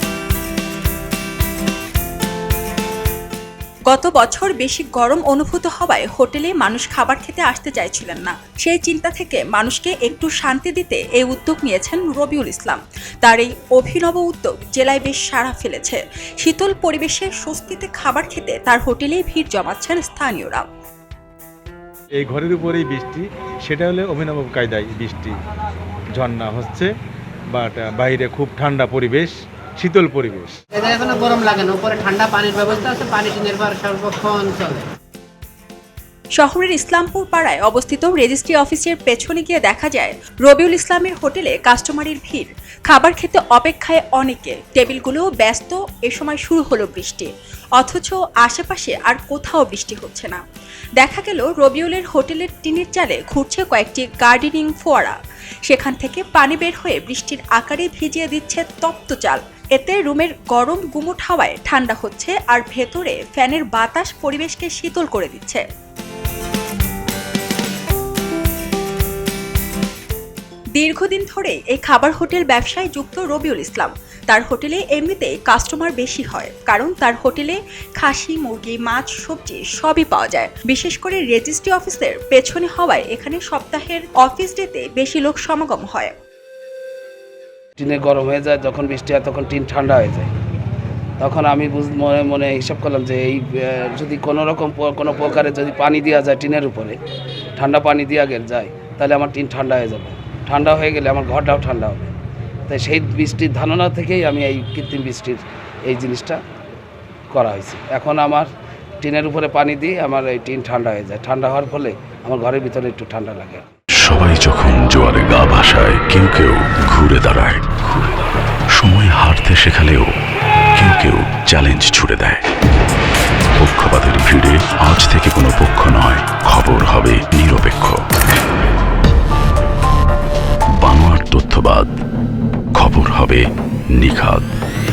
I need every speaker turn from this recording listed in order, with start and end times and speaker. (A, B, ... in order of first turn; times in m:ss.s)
0:03.9-0:20.7 A
0:22.2-0:25.3 B
0:26.2-0:26.9 B
0:27.5-0:30.5 B
0:30.8-0:34.8 C
0:36.4-0:50.4 A
0:51.0-1:05.6 A
1:10.7-1:26.1 A
1:27.8-1:30.3 D
1:31.2-1:37.0 D
1:37.6-1:42.1 D
1:42.7-1:46.4 D
1:47.3-1:48.5 D
1:49.0-1:53.7 D
1:54.0-1:57.7 E
1:58.8-2:00.1 E
2:00.8-2:02.4 E
2:03.6-2:08.0 E
2:10.8-2:11.9 E
2:12.7-2:14.5 E